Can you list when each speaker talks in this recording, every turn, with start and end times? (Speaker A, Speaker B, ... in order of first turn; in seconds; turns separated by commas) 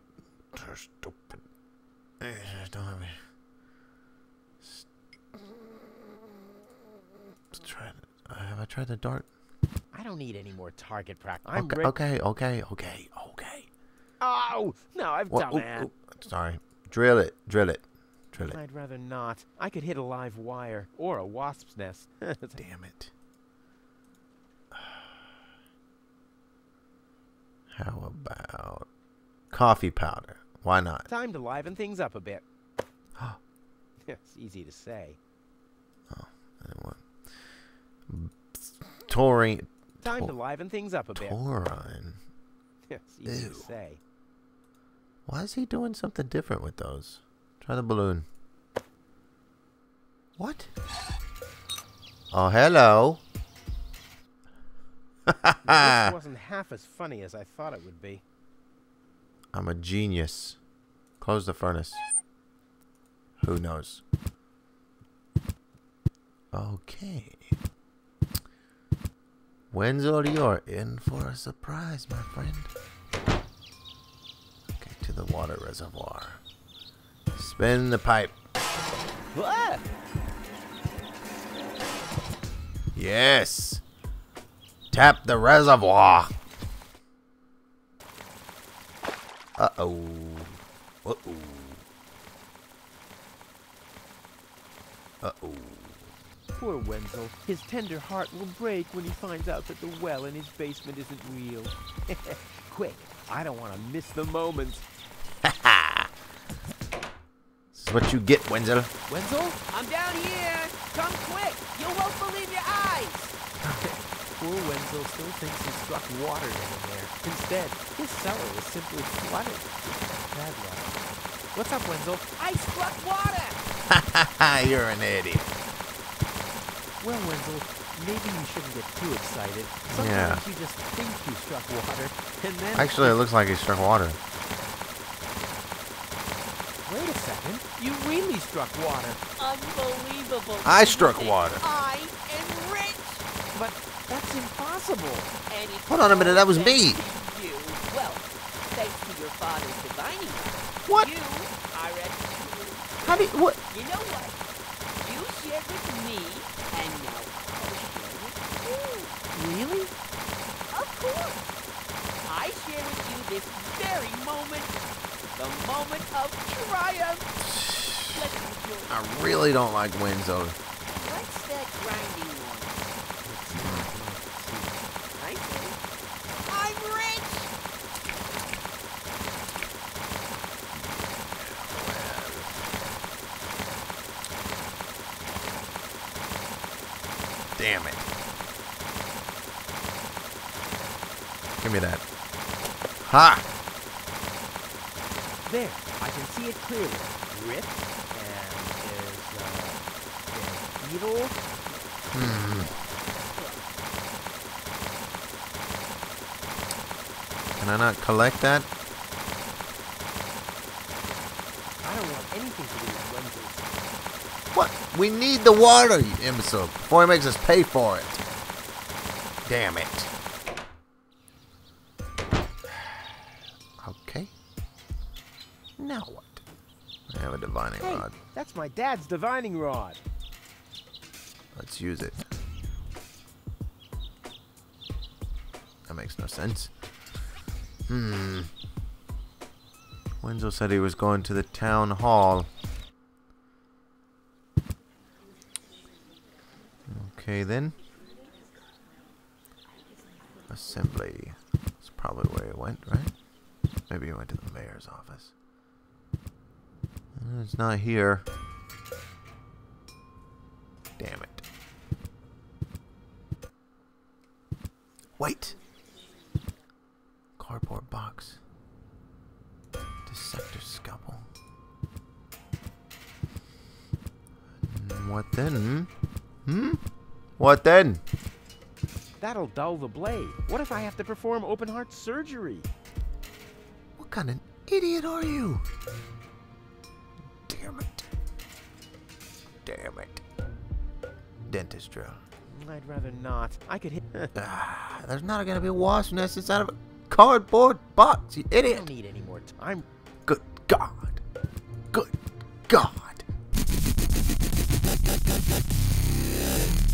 Speaker A: 0.5-1.4, Speaker A: 2.2-3.1, Speaker A: 7.5-9.3, Speaker B: 9.9-11.9, Speaker A: 11.5-13.7, Speaker B: 14.2-15.9, Speaker A: 15.3-18.6, Speaker B: 18.4-22.6, Speaker A: 22.6-23.1, Speaker A: 24.8-25.0, Speaker A: 27.7-28.9, Speaker A: 29.5-31.1, Speaker B: 31.1-32.4, Speaker B: 34.1-35.2, Speaker A: 36.1-37.1, Speaker A: 38.1-40.4, Speaker B: 40.0-41.4, Speaker A: 41.1-42.2, Speaker B: 42.9-44.0, Speaker A: 43.3-43.7, Speaker A: 45.3-48.3, Speaker A: 50.4-50.7, Speaker A: 52.3-53.2, Speaker A: 55.3-56.1, Speaker B: 55.6-58.2, Speaker A: 59.5-60.6, Speaker A: 61.2-62.0, Speaker A: 63.4-64.0, Speaker A: 66.5-67.4, Speaker A: 69.7-72.7, Speaker A: 74.8-76.4, Speaker A: 77.3-78.4, Speaker B: 79.3-79.8, Speaker A: 83.0-83.8, Speaker A: 84.9-86.3, Speaker A: 89.6-91.9, Speaker A: 95.2-96.1, Speaker B: 96.5-104.8, Speaker A: 105.4-106.1, Speaker A: 107.7-108.9, Speaker B: 109.1-109.8, Speaker C: 109.7-113.3, Speaker B: 113.7-121.0, Speaker B: 121.5-123.6, Speaker A: 123.9-125.6, Speaker B: 127.0-133.2, Speaker A: 129.9-130.4, Speaker A: 132.7-134.2, Speaker B: 136.9-139.2, Speaker C: 139.4-143.3, Speaker A: 140.6-141.6, Speaker B: 143.5-145.4, Speaker C: 145.5-154.4, Speaker A: 145.9-147.0, Speaker A: 153.0-153.6, Speaker C: 155.0-159.2, Speaker B: 159.3-159.9, Speaker C: 160.7-161.5, Speaker C: 162.3-164.8, Speaker C: 165.3-167.3, Speaker A: 167.4-168.3, Speaker C: 168.1-169.3, Speaker A: 168.9-170.6, Speaker C: 170.9-173.0, Speaker B: 173.2-174.8, Speaker A: 173.5-173.9, Speaker C: 175.2-175.8, Speaker C: 176.4-177.5, Speaker A: 180.7-182.7, Speaker A: 187.6-188.1, Speaker A: 191.6-192.0, Speaker A: 193.0-193.5, Speaker B: 195.4-199.8, Speaker B: 200.3-201.4, Speaker A: 202.1-202.7, Speaker C: 202.2-203.5, Speaker A: 207.6-208.7, Speaker B: 211.8-213.8, Speaker A: 214.5-218.2, Speaker A: 219.5-220.1, Speaker A: 223.8-224.3, Speaker A: 225.8-226.4, Speaker A: 227.1-228.2, Speaker B: 227.8-230.0, Speaker A: 231.5-232.3, Speaker A: 235.9-236.7, Speaker A: 237.9-238.5, Speaker A: 240.2-242.5, Speaker A: 246.9-247.8, Speaker A: 250.5-253.1, Speaker A: 253.9-255.3, Speaker A: 257.2-258.3, Speaker A: 261.0-261.4, Speaker A: 265.2-265.6, Speaker A: 267.4-268.4, Speaker A: 270.1-271.2, Speaker A: 274.7-275.9, Speaker A: 276.5-276.8, Speaker A: 277.4-278.0, Speaker B: 279.2-282.7, Speaker A: 284.0-285.6, Speaker A: 287.5-288.1, Speaker A: 289.6-290.2, Speaker A: 291.5-292.2, Speaker B: 292.5-294.3, Speaker A: 294.4-298.9, Speaker B: 298.6-299.9, Speaker A: 300.3-301.2, Speaker A: 302.7-303.2